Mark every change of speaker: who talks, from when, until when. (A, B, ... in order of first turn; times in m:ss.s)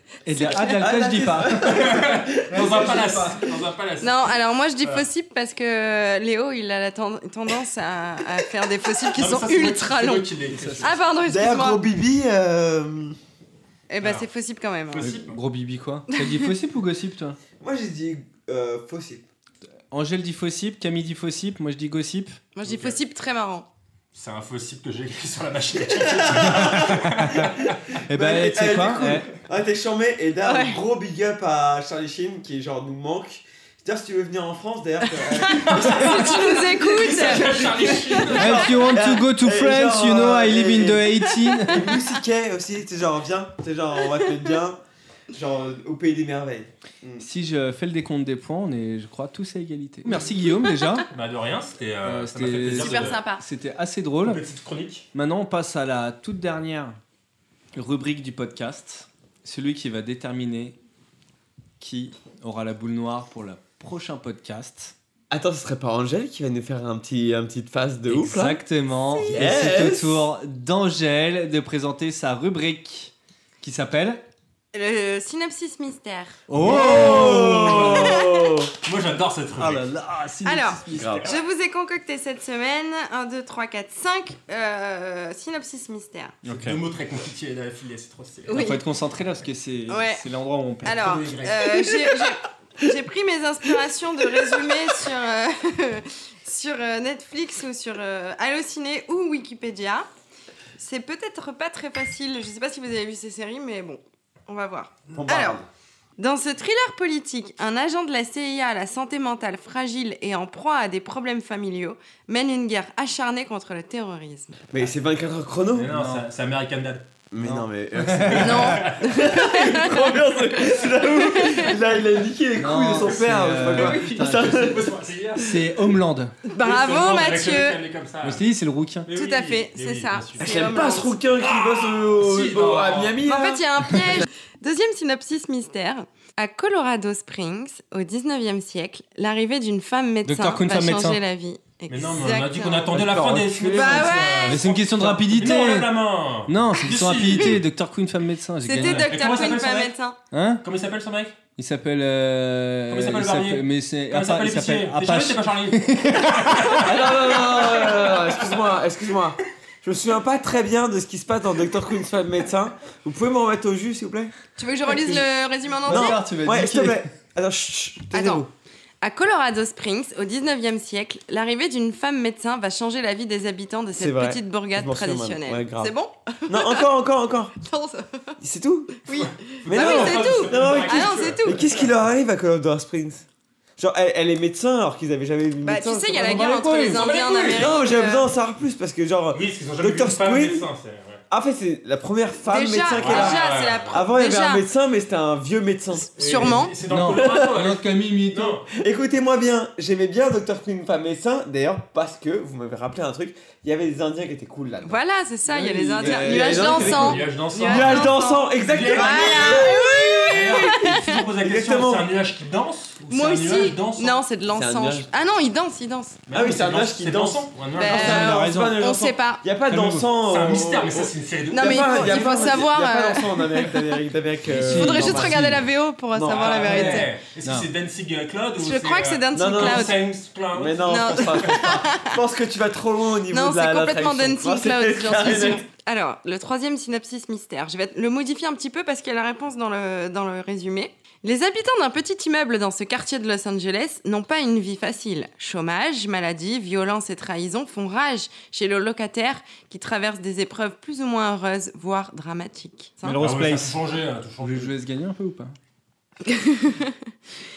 0:00.2-0:03.4 A
0:00.3-0:03.3 B
0:01.6-0:05.1 C
0:04.0-0:10.3 D
0:09.1-0:11.0 C
0:10.5-0:10.9 A
0:10.8-0:11.8 D
0:11.2-0:13.2 B
0:13.9-0:15.1 D
0:14.0-0:14.3 C
0:14.9-0:15.4 C
0:15.0-0:17.4 A
0:16.1-0:16.5 D
0:17.6-0:19.2 B
0:19.9-0:22.4 A
0:22.6-0:23.7 D
0:22.6-0:23.0 C
0:24.1-0:27.8 C
0:26.0-0:26.8 B
0:26.3-0:27.6 A
0:28.1-0:29.3 A
0:28.1-0:44.8 B
0:30.4-0:30.8 D
0:35.2-0:38.1 D
0:35.5-0:39.0 C
0:38.3-0:41.9 A
0:45.3-0:47.2 B
0:47.2-0:51.1 A
0:51.1-0:53.2 C
0:52.0-0:54.4 A
0:52.8-0:53.4 D
0:54.2-0:55.1 C
0:55.1-0:57.0 A
0:57.7-1:00.8 A
1:01.8-1:04.9 A
1:05.3-1:08.6 B
1:08.1-1:14.2 A
1:09.3-1:10.2 B
1:14.7-1:16.4 D
1:16.5-1:18.1 A
1:16.6-1:18.7 B
1:16.6-1:18.1 C
1:17.8-1:18.5 D
1:18.8-1:19.8 C
1:19.6-1:21.3 A
1:20.4-1:26.4 D
1:20.9-1:21.3 B
1:26.4-1:26.8 A
1:26.5-1:28.7 C
1:28.5-1:28.8 D
1:28.5-1:31.0 A
1:29.9-1:30.2 D
1:30.8-1:40.1 D
1:30.9-1:31.9 C
1:40.8-1:45.6 D
1:45.1-1:45.7 B
1:46.2-1:54.6 D
1:54.7-1:55.9 B
1:55.8-1:57.0 C
1:55.9-1:56.3 A
1:57.3-2:04.9 B
1:57.4-1:58.8 A
1:58.3-1:59.2 C
1:58.4-2:00.2 D
2:01.0-2:01.7 D
2:02.6-2:04.7 A
2:03.7-2:05.4 C
2:05.4-2:06.3 A
2:06.5-2:07.8 D
2:06.6-2:08.4 C
2:08.2-2:09.1 A
2:09.1-2:13.2 C
2:09.1-2:11.2 D
2:10.4-2:13.6 B
2:13.2-2:23.0 D
2:20.2-2:21.2 A
2:21.9-2:27.6 C
2:22.9-2:24.4 B
2:23.0-2:23.3 A
2:23.7-2:24.6 D
2:24.4-2:25.9 A
2:26.4-2:29.1 A
2:28.6-2:30.2 D
2:28.7-2:29.9 C
2:30.3-2:30.6 A
2:30.6-2:31.4 C
2:31.6-2:36.8 A
2:32.9-2:38.6 C
2:36.8-2:44.3 B
2:44.6-2:46.2 D
2:44.9-2:45.2 A
2:45.8-2:47.0 A
2:45.9-2:48.5 B
2:48.1-2:48.4 D
2:49.0-2:56.8 D
2:53.9-2:55.9 B
2:56.5-2:57.5 B
2:57.6-2:58.3 D
2:58.4-2:59.1 B
2:59.0-3:01.6 D
2:59.2-3:01.8 C
2:59.6-3:03.2 B
3:03.8-3:06.9 B
3:05.6-3:08.3 D
3:06.3-3:07.0 A
3:06.9-3:07.9 C
3:07.5-3:10.6 B
3:09.3-3:11.2 C
3:11.3-3:16.5 B
3:12.4-3:14.6 D
3:12.9-3:14.0 C
3:16.1-3:16.7 D
3:16.2-3:18.7 C
3:16.9-3:18.6 A
3:18.7-3:30.8 B
3:24.8-3:31.2 D
3:26.0-3:27.3 A
3:26.5-3:34.3 C
3:31.4-3:32.1 B
3:33.1-3:36.2 D
3:34.5-3:35.1 B
3:36.3-3:38.3 C
3:36.3-3:45.5 B
3:37.7-3:39.4 D
3:37.9-3:38.8 A
3:39.7-3:40.0 A
3:40.0-3:42.6 C
3:41.5-3:43.7 D
3:44.5-3:45.6 A
3:44.6-3:47.1 D
3:46.1-3:47.0 B
3:46.2-3:51.6 C
3:46.7-3:47.7 A
3:48.6-3:50.1 D
3:49.3-3:50.0 B
3:50.5-3:55.6 B
3:50.8-3:52.1 D
3:53.3-4:13.2 D
4:13.0-4:13.8 A
4:13.1-4:14.7 C
4:14.4-4:15.5 A
4:16.2-4:17.0 D